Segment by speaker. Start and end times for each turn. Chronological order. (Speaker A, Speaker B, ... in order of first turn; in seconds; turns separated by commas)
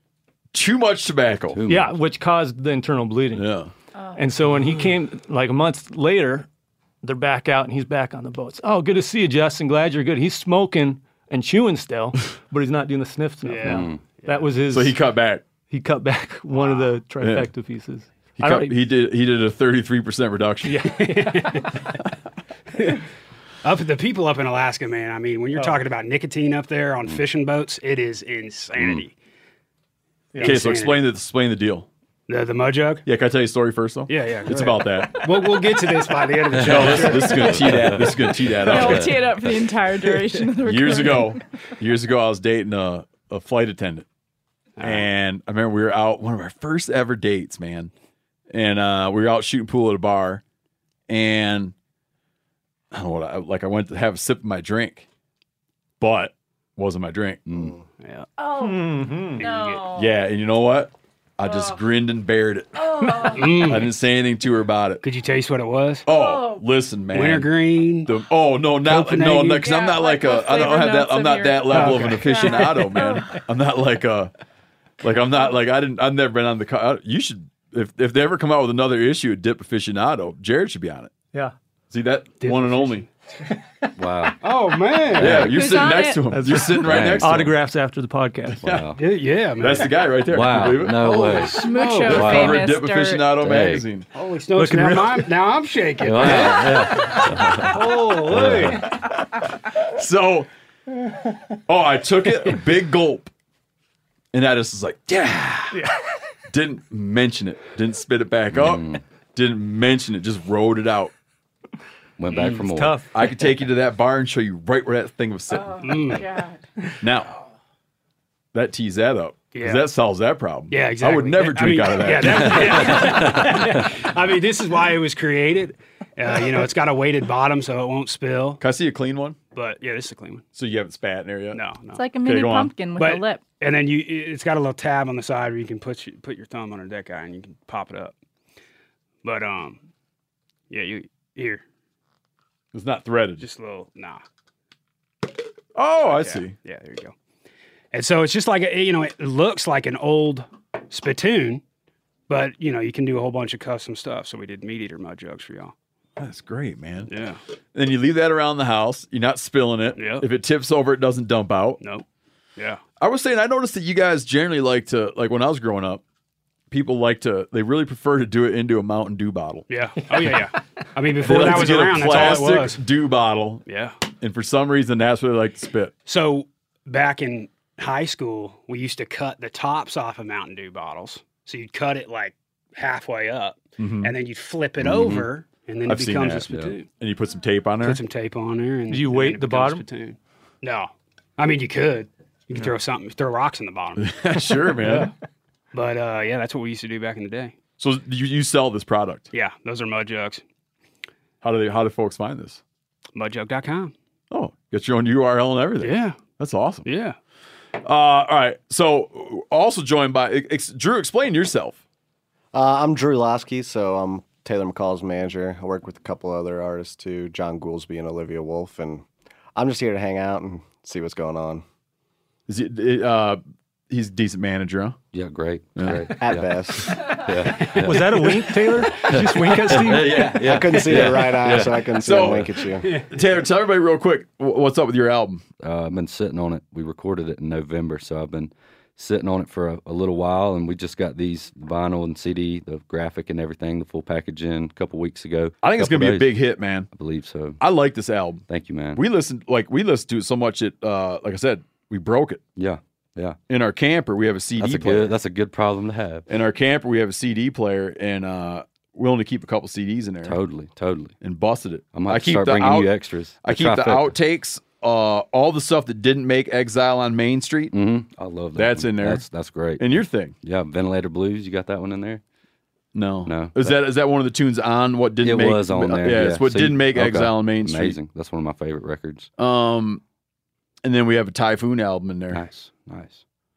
Speaker A: 0.5-1.6, Speaker B: 1.5-1.9, Speaker C: 1.7-3.5, Speaker A: 3.3-3.7, Speaker C: 4.2-6.5, Speaker C: 7.0-15.0, Speaker D: 13.4-14.5, Speaker B: 13.6-14.0, Speaker A: 14.7-15.4, Speaker C: 15.7-18.8, Speaker A: 17.2-17.5, Speaker A: 18.4-20.9, Speaker C: 20.6-21.8, Speaker D: 20.9-21.8, Speaker D: 22.8-23.0, Speaker D: 23.6-29.1, Speaker B: 28.8-29.1, Speaker D: 30.4-31.0, Speaker A: 30.4-31.9, Speaker D: 32.3-33.0, Speaker A: 33.1-35.6, Speaker D: 34.1-37.8, Speaker B: 36.5-39.1, Speaker A: 36.6-39.3, Speaker E: 38.6-41.4, Speaker A: 40.6-44.1, Speaker D: 44.8-45.1, Speaker A: 44.8-47.9, Speaker A: 48.5-50.4, Speaker A: 51.1-51.7, Speaker A: 52.9-55.1, Speaker A: 56.0-57.7, Speaker B: 57.5-57.7, Speaker D: 58.0-58.3, Speaker E: 58.4-60.1, Speaker C: 58.6-59.5, Speaker D: 59.4-59.9, Speaker A: 59.9-65.0, Speaker E: 61.5-61.8, Speaker E: 62.9-63.6, Speaker D: 63.2-63.9, Speaker D: 65.0-66.1, Speaker A: 66.1-67.5, Speaker E: 66.1-66.6, Speaker D: 67.1-68.1, Speaker A: 68.0-74.3, Speaker D: 68.8-69.7, Speaker E: 69.6-73.4, Speaker D: 71.7-72.5, Speaker C: 71.8-72.0, Speaker A: 75.0-81.1, Speaker A: 81.9-83.1, Speaker D: 82.4-83.1, Speaker C: 83.5-83.9, Speaker B: 84.0-84.4, Speaker D: 84.4-85.5, Speaker B: 85.1-85.6, Speaker A: 85.1-87.5, Speaker E: 85.4-86.2, Speaker C: 86.3-88.6, Speaker B: 86.8-87.5, Speaker B: 88.6-89.0, Speaker D: 89.0-89.9, Speaker A: 89.6-91.1, Speaker B: 90.3-92.7, Speaker D: 90.9-92.4, Speaker E: 91.6-93.3, Speaker A: 92.1-94.1, Speaker B: 93.4-93.8, Speaker D: 94.1-96.7, Speaker C: 94.6-95.3, Speaker B: 96.0-98.8, Speaker C: 96.2-98.9, Speaker D: 97.8-98.6, Speaker A: 99.8-100.5, Speaker A: 101.7-103.3, Speaker A: 104.3-105.8, Speaker C: 105.7-106.1, Speaker A: 106.5-111.1, Speaker B: 108.5-109.0, Speaker B: 112.2-113.2, Speaker D: 112.3-112.7, Speaker C: 112.7-113.1, Speaker A: 113.1-116.2, Speaker E: 115.8-116.6, Speaker D: 115.8-116.3, Speaker A: 117.0-117.4, Speaker A: 118.5-123.3, Speaker D: 119.5-119.9, Speaker D: 120.7-128.6, Speaker B: 122.6-123.5, Speaker A: 128.6-129.4, Speaker D: 129.5-130.4, Speaker A: 130.5-131.6, Speaker D: 131.5-132.0, Speaker E: 131.9-133.4, Speaker A: 132.2-132.7, Speaker D: 133.0-138.2, Speaker D: 139.2-139.8, Speaker D: 140.7-141.6, Speaker A: 142.7-143.4, Speaker D: 143.4-144.2, Speaker A: 145.8-146.6, Speaker D: 146.0-147.1, Speaker D: 147.9-151.6, Speaker D: 152.3-155.7, Speaker A: 156.2-157.1, Speaker D: 157.1-157.4, Speaker A: 157.7-161.8, Speaker D: 160.0-160.3, Speaker D: 162.6-162.8, Speaker A: 163.0-166.0, Speaker A: 166.7-169.7, Speaker D: 169.7-172.8, Speaker A: 171.2-173.6, Speaker D: 173.7-174.0, Speaker A: 174.2-175.9, Speaker D: 176.1-186.9, Speaker A: 183.8-184.1, Speaker B: 184.8-185.3, Speaker A: 185.9-188.0, Speaker D: 187.8-194.5, Speaker C: 188.9-189.9, Speaker A: 194.0-195.1, Speaker C: 194.8-195.1, Speaker D: 195.7-197.6, Speaker A: 197.8-199.3, Speaker D: 199.3-200.4, Speaker A: 201.4-202.6, Speaker D: 203.2-203.9, Speaker A: 204.3-206.9, Speaker D: 205.8-206.2, Speaker D: 206.8-207.2, Speaker A: 207.8-211.8, Speaker F: 212.5-219.1, Speaker F: 219.6-221.6, Speaker A: 222.5-225.0, Speaker B: 225.1-232.5, Speaker A: 225.8-226.2, Speaker F: 226.2-227.0, Speaker A: 226.8-227.2, Speaker C: 227.8-230.2, Speaker A: 230.0-231.3, Speaker F: 230.4-233.0, Speaker A: 232.0-235.4, Speaker B: 235.6-247.6, Speaker A: 245.6-246.9, Speaker A: 247.6-248.4, Speaker B: 248.5-249.0, Speaker A: 248.9-252.4, Speaker B: 252.6-253.4, Speaker A: 253.5-255.1, Speaker B: 254.6-256.3, Speaker A: 256.3-260.4, Speaker B: 260.2-261.1, Speaker A: 261.2-262.9, Speaker B: 261.9-264.2, Speaker A: 263.4-267.8, Speaker B: 267.7-269.9, Speaker A: 268.6-269.2, Speaker A: 269.8-270.4, Speaker B: 270.4-272.2, Speaker A: 272.9-278.0, Speaker B: 273.2-273.8, Speaker B: 275.2-279.3, Speaker A: 279.4-280.0, Speaker A: 280.8-282.4, Speaker B: 282.3-283.2